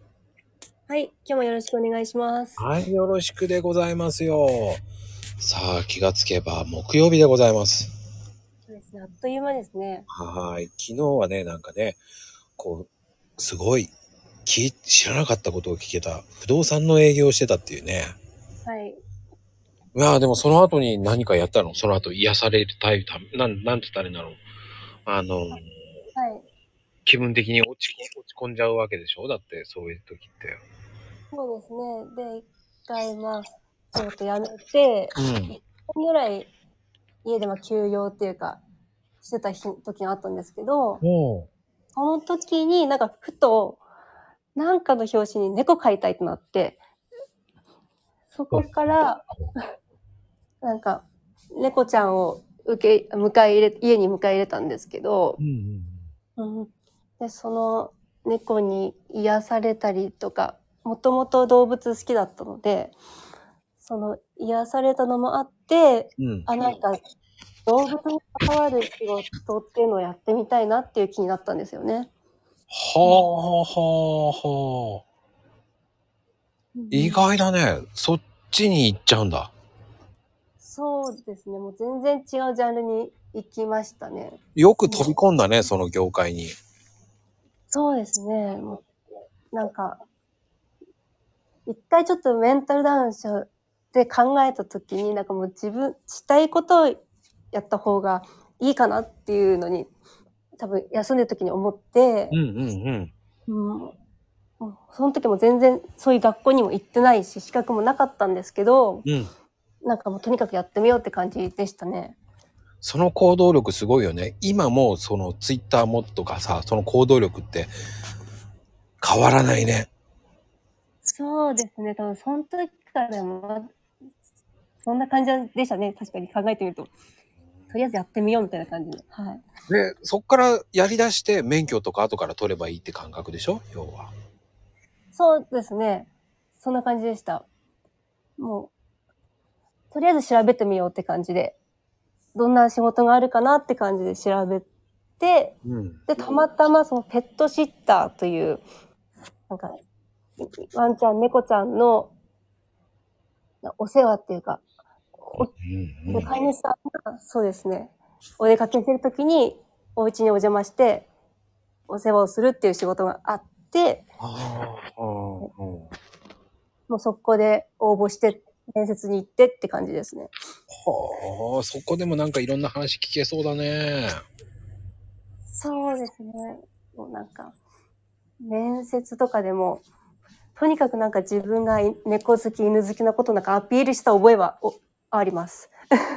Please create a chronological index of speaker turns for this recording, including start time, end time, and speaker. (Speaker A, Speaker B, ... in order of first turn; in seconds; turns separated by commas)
Speaker A: 0.9-2.6, Speaker B: 2.6-4.8, Speaker B: 5.4-7.9, Speaker A: 8.7-10.1, Speaker B: 10.1-12.0, Speaker B: 12.6-13.9, Speaker B: 14.4-18.1, Speaker A: 18.6-19.0, Speaker B: 19.9-24.4, Speaker B: 25.1-25.7, Speaker A: 26.1-26.4, Speaker B: 27.1-30.6, Speaker A: 31.3-36.5, Speaker B: 35.1-35.5, Speaker A: 37.2-38.6, Speaker A: 39.2-41.0, Speaker B: 41.0-41.5, Speaker A: 42.0-43.8, Speaker A: 44.5-46.8, Speaker A: 48.3-49.2, Speaker A: 50.6-55.4, Speaker B: 55.4-56.1, Speaker A: 56.4-63.0, Speaker A: 63.8-67.0, Speaker B: 66.2-66.5, Speaker A: 67.7-72.1, Speaker B: 72.7-75.0, Speaker A: 76.8-77.2, Speaker B: 76.9-79.5, Speaker A: 80.6-85.1, Speaker B: 84.5-86.5, Speaker A: 87.7-88.8, Speaker A: 89.5-90.0, Speaker A: 91.7-97.0, Speaker A: 97.5-99.9, Speaker A: 100.6-102.3, Speaker B: 102.3-103.1, Speaker A: 103.5-103.9, Speaker A: 104.6-109.0, Speaker B: 109.0-109.3, Speaker A: 109.8-112.2, Speaker B: 112.8-117.7, Speaker B: 119.0-119.9, Speaker A: 121.0-123.7, Speaker A: 124.8-126.9, Speaker A: 127.7-129.4, Speaker B: 129.7-134.1, Speaker A: 135.1-137.5, Speaker A: 138.4-138.7, Speaker A: 139.9-141.6, Speaker A: 142.3-144.7, Speaker A: 145.2-145.6, Speaker B: 145.6-146.0, Speaker A: 146.1-148.6, Speaker A: 150.4-152.1, Speaker A: 153.6-154.6, Speaker A: 155.2-155.5, Speaker B: 155.4-156.3, Speaker A: 156.1-161.1, Speaker A: 161.9-164.1, Speaker B: 164.2-165.9, Speaker A: 166.9-170.3, Speaker B: 170.7-174.2, Speaker A: 175.5-177.5, Speaker A: 178.4-179.8, Speaker A: 180.6-185.8